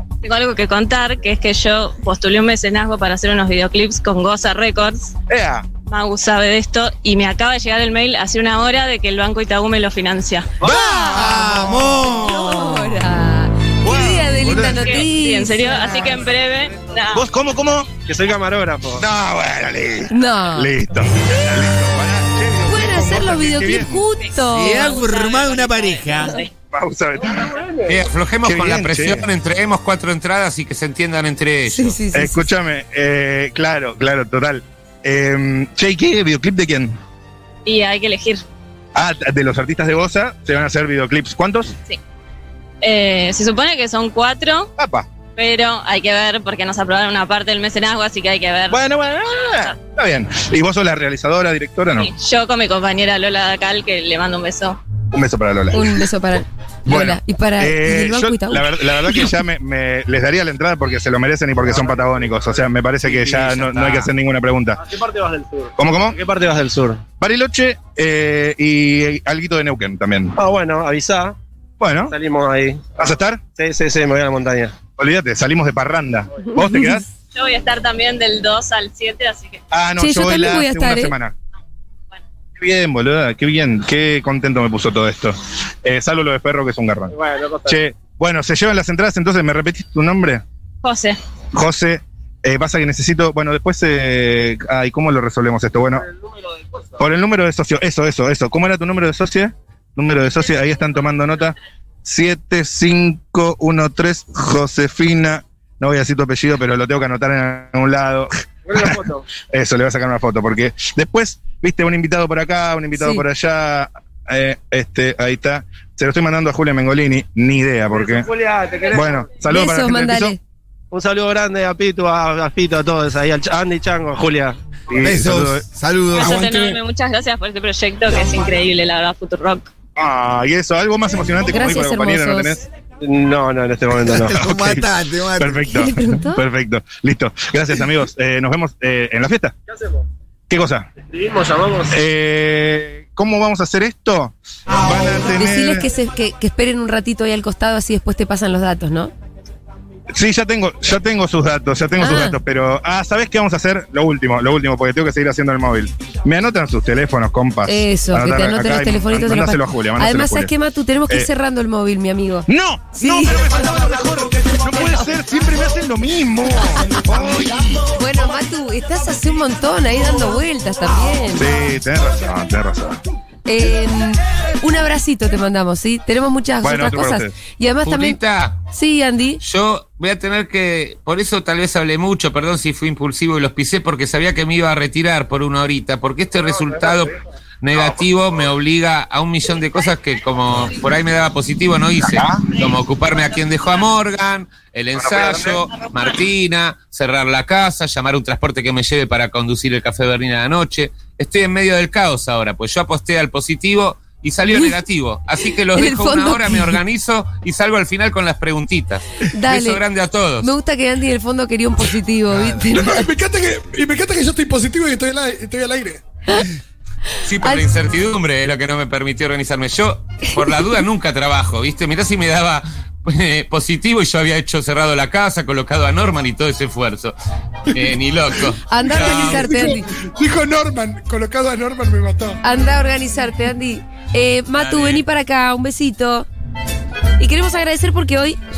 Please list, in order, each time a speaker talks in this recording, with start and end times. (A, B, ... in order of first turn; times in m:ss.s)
0:00.2-0:05.1 A
0:05.3-0:05.6 B
0:05.9-0:10.5 A
0:10.6-0:13.0 C
0:10.6-0:16.2 D
0:13.8-0:15.0 B
0:14.6-0:17.2 A
0:17.1-0:17.9 B
0:18.1-0:19.0 E
0:19.0-0:24.1 B
0:20.1-0:20.7 D
0:22.7-0:25.0 D
0:24.2-0:26.5 A
0:24.5-0:26.4 C
0:26.7-0:27.5 B
0:27.4-0:27.9 E
0:27.8-0:32.0 F
0:28.4-0:29.3 B
0:31.7-0:32.5 D
0:32.1-0:37.0 B
0:37.6-0:38.4 A
0:38.9-0:41.7 B
0:42.8-0:44.7 A
0:44.8-0:45.1 B
0:45.4-0:49.7 A
0:48.7-0:52.1 B
0:51.9-0:54.8 A
0:55.1-0:55.9 B
0:55.7-0:59.3 D
0:56.9-1:04.8 B
1:01.6-1:02.4 E
1:03.0-1:04.1 E
1:04.8-1:07.0 E
1:05.8-1:06.2 B
1:07.2-1:10.3 B
1:10.4-1:11.4 E
1:11.8-1:12.1 B
1:12.1-1:14.8 E
1:13.0-1:13.4 B
1:15.0-1:17.1 B
1:17.3-1:19.6 A
1:19.7-1:21.3 B
1:20.0-1:21.1 D
1:22.6-1:27.1 B
1:27.1-1:27.8 E
1:27.7-1:30.4 B
1:30.8-1:31.2 A
1:31.5-1:36.0 B
1:37.0-1:49.0 B
1:48.7-1:49.2 E
1:49.5-1:58.3 B
1:52.9-1:53.2 D
1:57.9-1:59.3 E
1:58.9-2:00.4 B
1:59.4-2:00.4 D
2:00.9-2:05.0 E
2:04.9-2:05.6 B
2:05.0-2:06.5 C
2:06.1-2:09.7 A
2:06.3-2:06.8 G
2:10.0-2:12.6 B
2:11.5-2:12.6 D
2:13.0-2:14.4 E
2:14.1-2:15.7 C
2:14.2-2:19.5 B
2:15.7-2:16.4 D
2:20.5-2:20.9 B
2:21.1-2:22.0 E
2:21.9-2:25.9 B
2:25.4-2:29.1 D
2:30.1-2:40.5 B
2:32.0-2:32.4 D
2:37.6-2:43.4 D
2:42.5-2:47.9 B
2:47.9-2:51.5 D
2:51.4-2:53.0 B
2:53.4-2:58.2 D
2:56.6-2:57.3 B
2:57.8-2:58.6 F
2:58.7-2:59.4 D
2:59.4-3:30.5 F
3:07.7-3:08.0 B
3:12.0-3:12.5 B
3:15.0-3:15.6 B
3:25.7-3:26.8 D
3:29.3-3:29.8 D
3:30.4-3:33.0 D
3:32.3-3:32.7 C
3:32.7-3:36.0 G
3:37.2-3:47.1 F
3:47.7-3:49.5 F
3:48.7-3:49.9 D
3:48.8-3:52.4 G
3:52.4-3:56.3 D
3:54.6-3:55.0 F
3:57.2-3:58.4 D